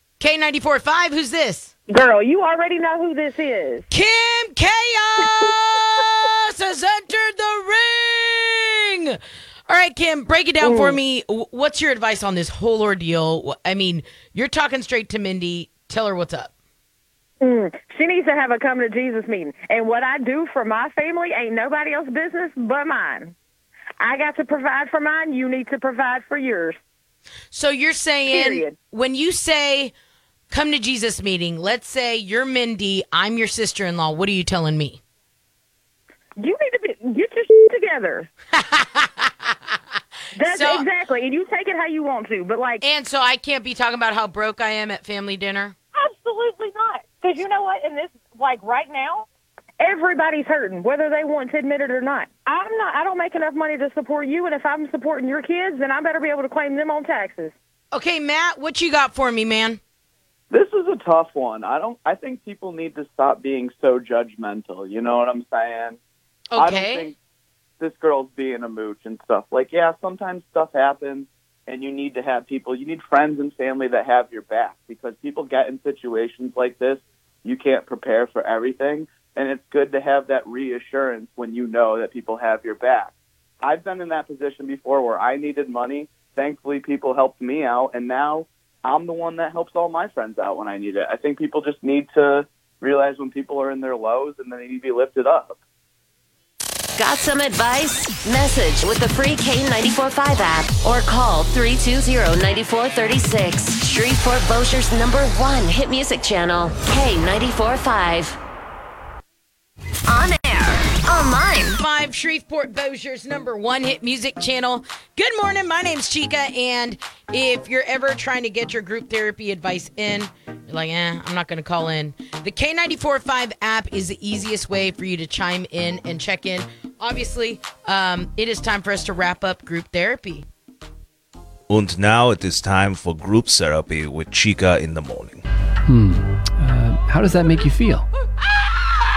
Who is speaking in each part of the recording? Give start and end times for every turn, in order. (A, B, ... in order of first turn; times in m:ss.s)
0:00.2-0:01.7 A
0:01.9-0:03.8 B
0:03.9-0:09.2 A
0:09.7-0:16.5 A
0:10.6-0:11.0 B
0:17.4-0:23.4 B
0:24.0-0:26.8 B
0:27.5-0:29.9 A
0:28.3-0:28.8 B
0:30.5-0:35.0 A
0:36.4-0:38.3 B
0:38.5-0:39.8 A
0:40.4-0:42.8 B
0:40.4-0:40.9 A
0:42.8-0:45.8 A
0:45.9-0:49.3 B
0:49.8-0:57.5 B
0:57.9-0:59.8 A
1:00.5-1:06.0 C
1:06.5-1:07.1 A
1:06.6-1:07.2 C
1:07.8-1:35.6 C
1:37.0-1:48.4 D
1:50.1-1:51.8 D
1:51.7-2:10.5 A
2:11.7-2:15.4 E
2:15.9-2:18.1 F